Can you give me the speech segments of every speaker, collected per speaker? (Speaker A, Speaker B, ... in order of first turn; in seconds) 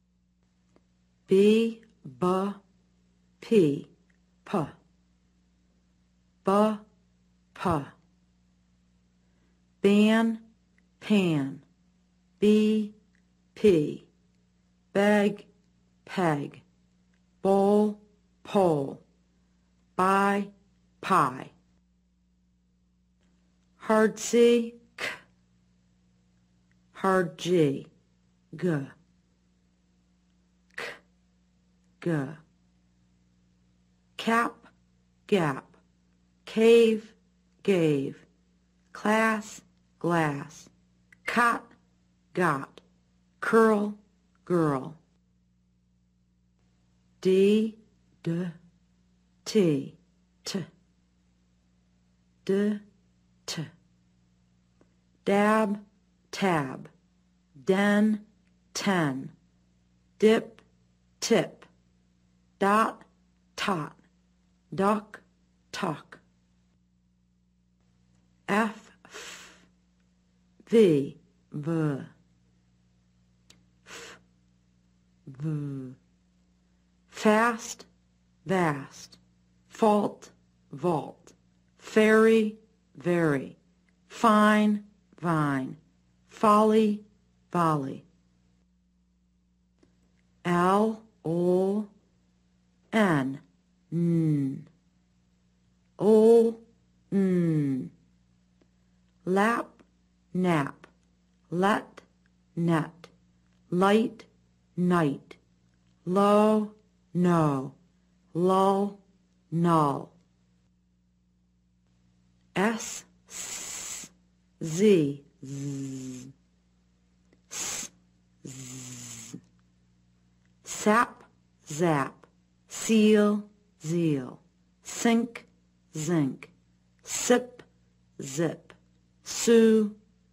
Speaker A: 1.3-2.6, 3.4-3.9, 4.4-4.7, 6.4-6.8, 7.5-7.9, 9.8-10.4, 11.0-11.6, 12.4-12.9, 13.5-14.1, 14.9-15.5, 16.0-16.6, 17.4-19.0, 19.9-21.5, 23.8-25.2, 26.9-27.9, 28.5-28.9, 32.0-32.4, 34.1-34.7, 35.3-35.8, 36.4-38.2, 38.9-40.7, 41.2-41.7, 42.3-42.8, 43.4-45.0, 47.2-48.6, 49.4-50.7, 52.4-52.8, 53.5-53.7, 55.2-56.9, 57.6-59.3, 60.2-60.6, 61.2-61.7, 62.6-63.0, 63.5-64.0, 64.7-66.2, 68.5-69.6, 70.7-72.1, 73.8-74.2, 75.3-76.0, 77.1-77.9, 78.4-88.0, 90.4-91.9, 92.9-94.7, 96.0-97.9, 99.2-100.9, 101.5-103.1, 103.7-105.4, 106.0-107.7, 108.3-109.0, 109.5-110.1, 112.5-116.3, 117.5-117.9, 118.4-119.4, 120.6-126.5, 127.0-127.6, 128.2-129.9